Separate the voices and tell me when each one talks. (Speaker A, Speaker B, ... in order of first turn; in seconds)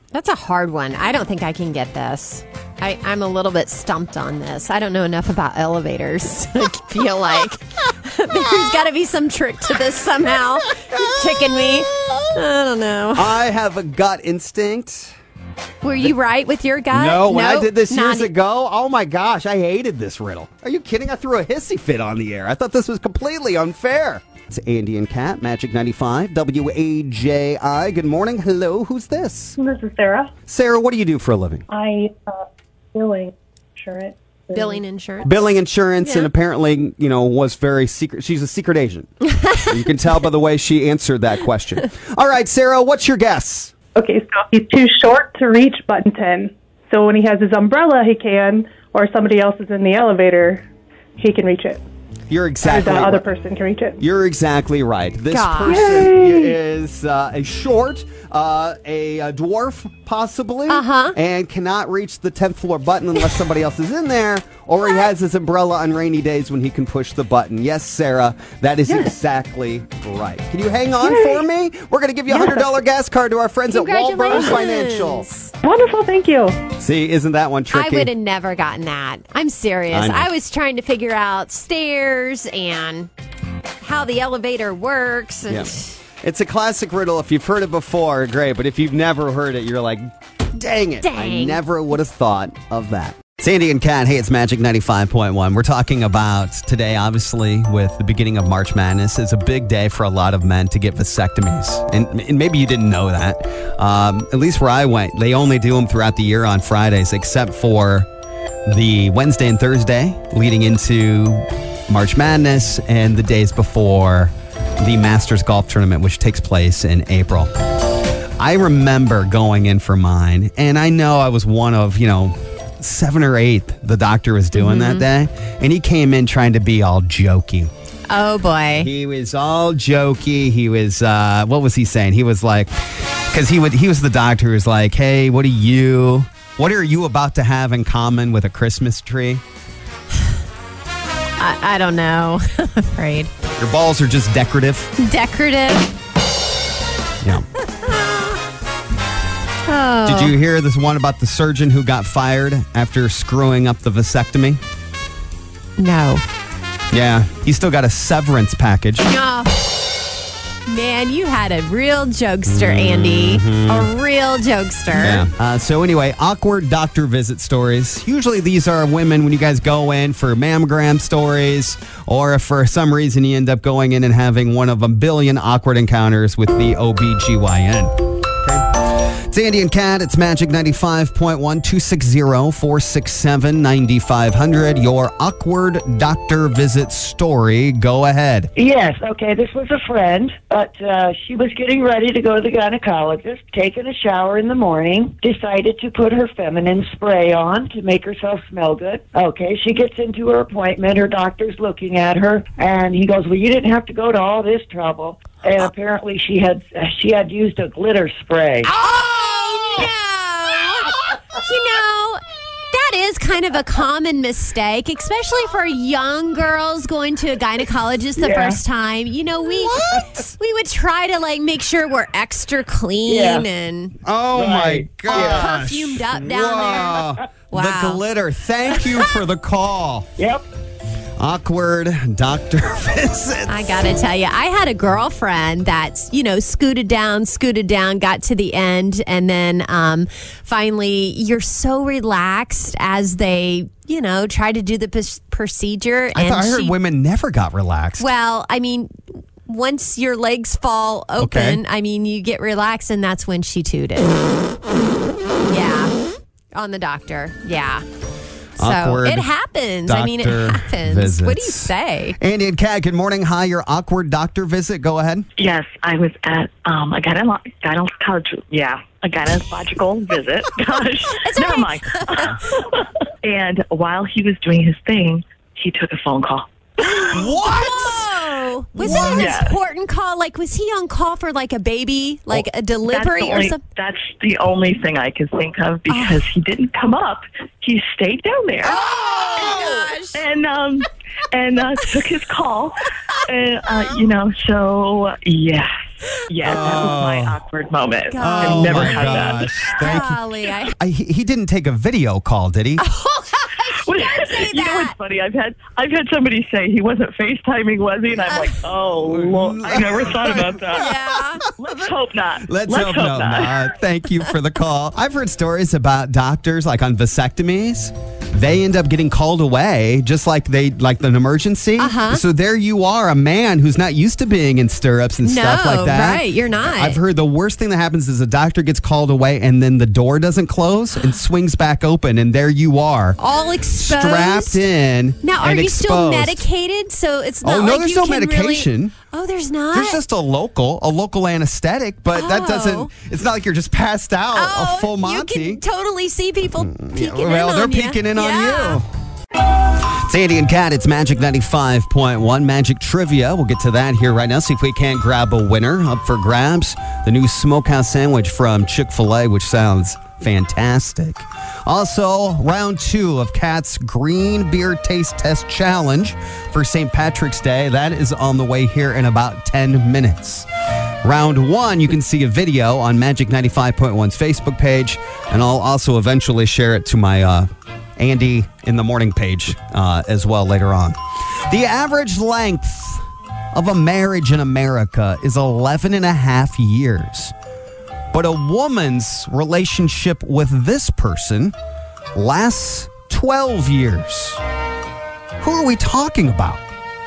Speaker A: 0.1-13.4, 15.8-18.3, 34.5-35.3, 36.0-36.3, 55.3-56.1, 60.7-61.2, 73.7-75.5, 77.7-83.1, 83.8-86.0, 91.0-91.6, 124.5-125.0, 128.1-128.9, 141.4-143.3, 145.0-145.9, 147.6-148.3, 149.7-150.3, 155.8-156.2, 159.0-159.7, 160.7-165.3, 208.8-223.9, 225.1-228.0, 233.5-246.7, 248.0-254.2, 255.5-255.9, 256.5-257.8, 258.6-262.2, 271.1-272.4, 277.0-283.6, 285.9-286.2, 288.6-290.2, 298.1-300.7, 302.8-304.9, 308.3-308.6, 310.7-311.4, 321.8-322.2, 325.2-327.0, 333.2-334.6, 335.2-340.0, 342.1-342.9, 344.3-348.8
Speaker B: 10.9-12.2, 13.1-15.1, 16.9-29.6, 30.5-31.6, 35.2-43.7, 52.3-53.2, 54.0-75.3, 76.8-78.1, 79.9-80.3, 85.5-108.1, 108.7-117.5, 118.4-127.7, 128.8-139.4, 143.6-144.9, 150.1-154.6, 156.9-159.1, 162.5-163.9, 164.9-178.7, 179.3-188.5, 219.6-220.3, 224.0-230.1, 231.2-233.8, 246.1-248.1, 251.2-251.6, 258.6-259.3, 259.9-265.3, 277.1-278.1, 278.8-279.4, 296.4-297.4, 298.2-300.2, 300.8-302.8, 309.1-333.2, 333.7-336.4, 337.4-338.9, 339.7-345.6, 346.6-348.9, 350.0-370.5, 371.0-387.3, 388.1-391.5, 392.1-394.4, 395.4-396.6
Speaker C: 29.6-30.3, 31.7-34.8, 44.0-50.6, 51.2-51.8, 52.6-54.0, 55.6-56.5, 71.0-71.4, 72.3-72.7, 75.6-76.6
Speaker D: 188.6-208.7, 218.2-218.6, 223.1-223.5, 224.3-225.6, 230.2-230.4
Speaker E: 265.4-277.3, 278.8-279.6, 282.9-300.0, 303.7-311.0, 311.6-313.7